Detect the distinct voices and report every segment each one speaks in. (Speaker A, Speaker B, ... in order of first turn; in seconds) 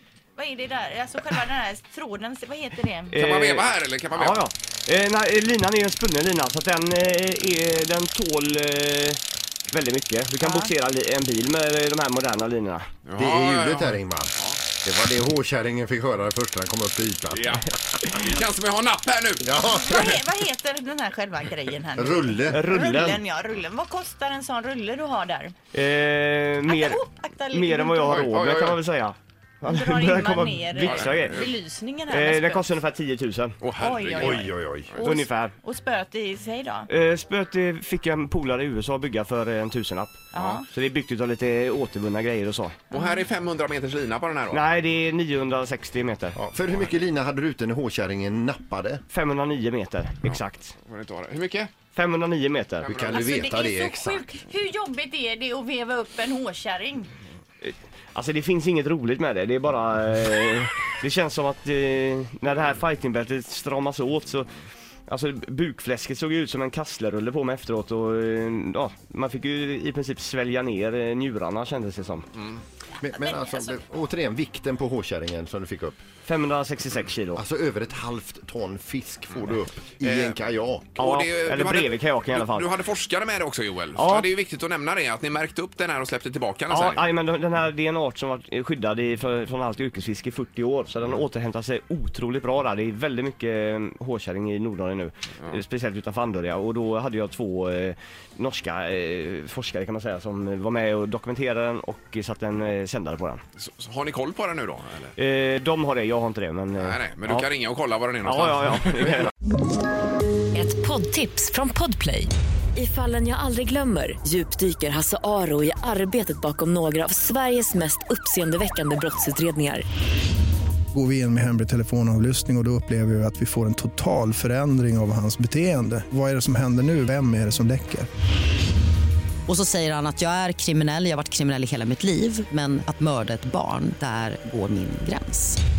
Speaker A: 0.3-3.1, 10.4-10.7, 19.6-25.5, 26.6-28.2, 29.6-32.8, 33.8-36.9, 40.3-40.6, 42.9-43.2, 53.1-57.1
Speaker B: 3.1-12.9, 22.5-23.2, 25.7-31.4, 32.1-33.6, 35.0-35.5, 36.9-42.8, 44.5-46.4, 49.1-50.7, 51.9-52.9, 57.6-64.5, 65.1-72.3, 76.2-77.4, 81.0-82.7, 83.9-84.3, 86.7-103.4, 105.2-107.5, 108.2-109.3
Speaker C: 3.1-4.4, 13.1-14.6, 17.3-19.5, 28.1-28.8, 30.8-31.5, 33.6-35.1, 42.9-44.6, 50.3-51.7, 52.8-53.6, 80.0-80.4, 81.0-87.0, 103.6-105.1, 106.8-109.3
Speaker D: 13.2-17.6, 19.4-20.2, 21.9-22.6, 34.2-34.9, 46.3-49.0, 52.9-54.3, 73.0-76.0, 77.3-81.0
Speaker E: 110.5-119.8
Speaker F: 120.9-128.1
Speaker G: 129.5-135.6